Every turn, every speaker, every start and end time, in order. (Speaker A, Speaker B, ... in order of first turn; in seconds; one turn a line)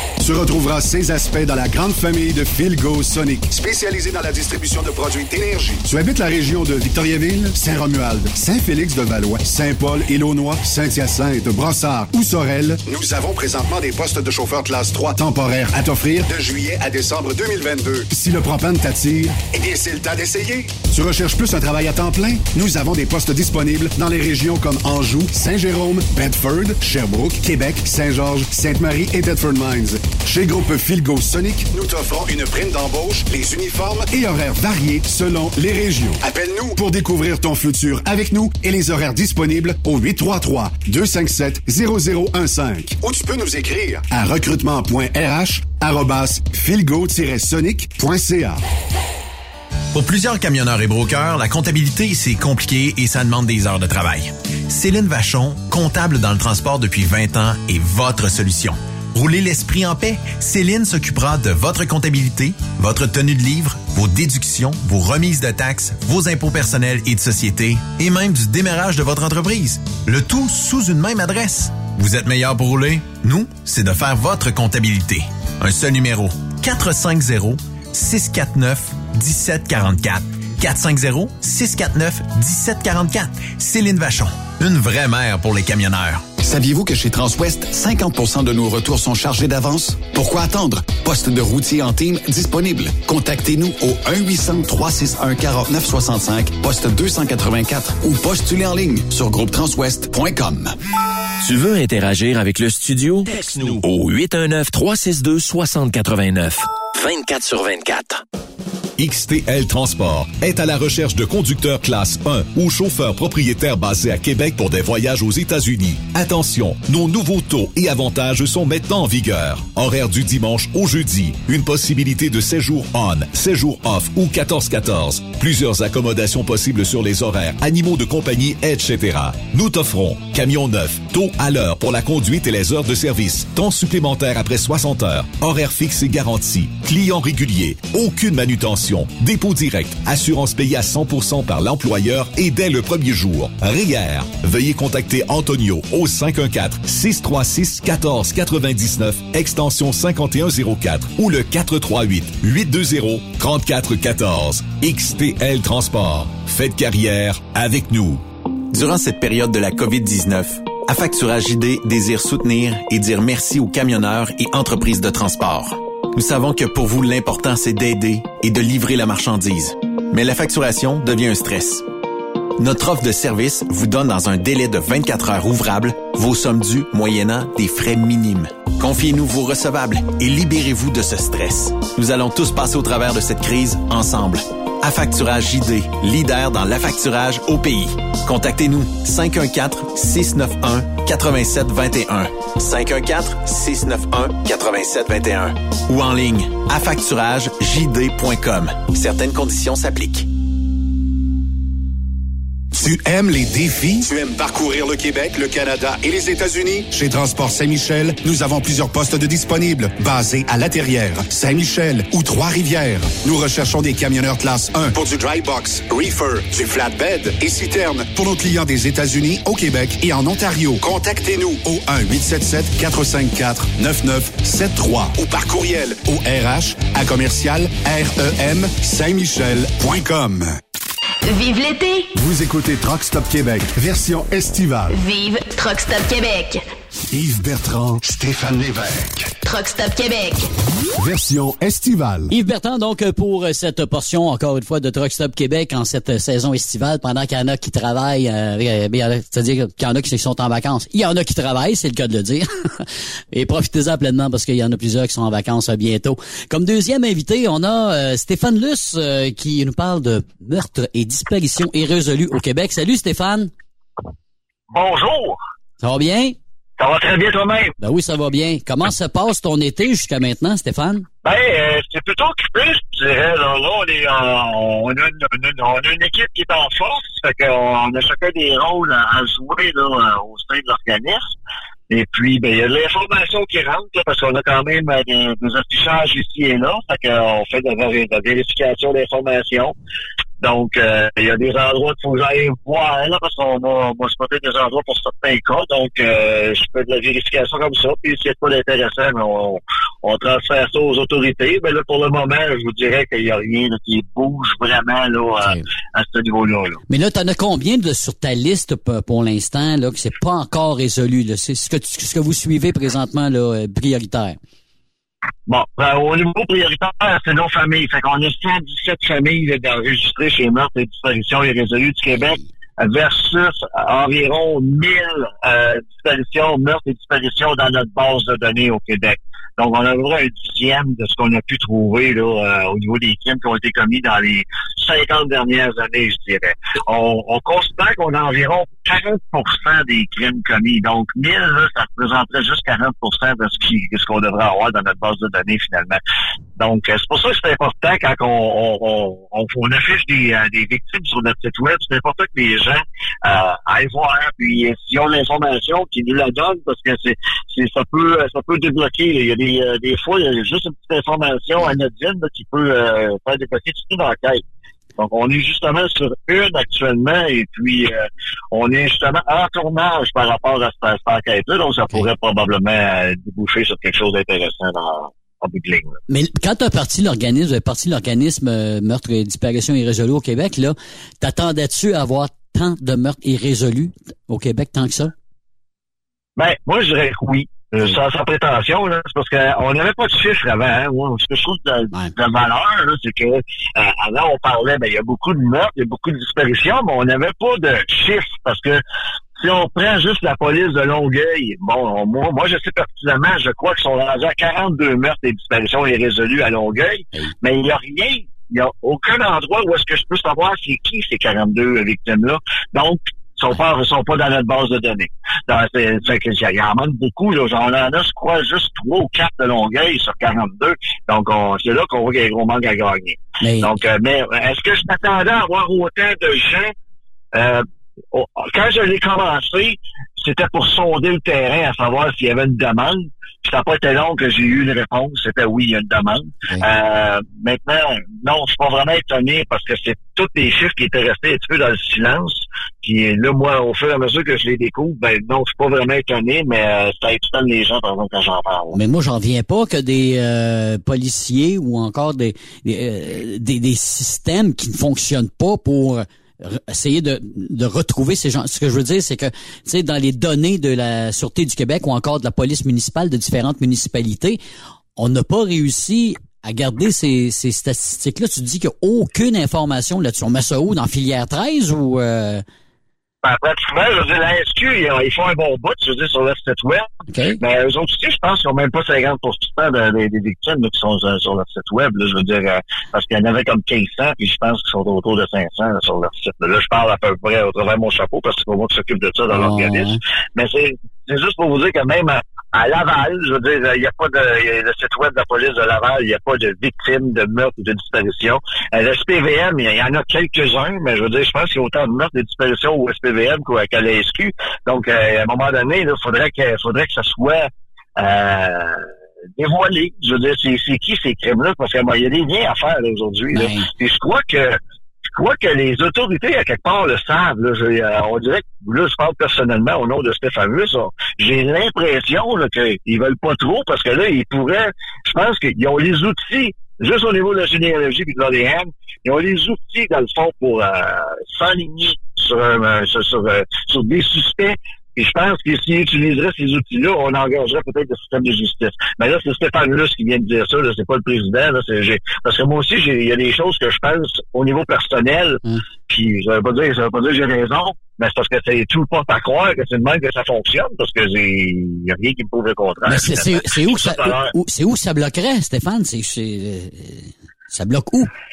Speaker A: 0.2-48.6
Speaker B: 49.9-86.2
Speaker C: 86.4-100.8
Speaker D: 101.4-108.2
Speaker E: 109.0-158.2
Speaker B: 158.7-171.9
Speaker B: 172.6-200.3
Speaker A: 202.7-230.5
Speaker F: 231.2-232.1
Speaker A: 232.2-234.9
Speaker F: 234.9-236.7
Speaker A: 237.1-239.4
Speaker F: 239.4-240.5
Speaker A: 241.0-242.3
Speaker G: 242.3-263.5
Speaker H: 264.7-265.4
Speaker G: 265.8-266.4
Speaker H: 266.8-267.8
Speaker G: 267.8-271.1
Speaker H: 271.2-281.3
Speaker H: 281.9-289.7
Speaker H: 290.4-306.8
Speaker G: 306.9-314.4
Speaker H: 315.5-346.0
Speaker G: 322.1-322.5
Speaker H: 346.6-364.4
Speaker H: 365.0-376.0
Speaker G: 376.1-385.1
Speaker H: 386.4-398.8
Speaker H: 399.4-426.7
Speaker G: 423.4-423.8
Speaker H: 427.3-448.8
Speaker G: 448.7-464.4
Speaker G: 465.0-472.4
Speaker H: 473.2-514.6
Speaker G: 477.1-477.4
Speaker G: 489.3-490.0
Speaker G: 513.3-513.7
Speaker H: 515.1-554.3
Speaker G: 552.9-558.1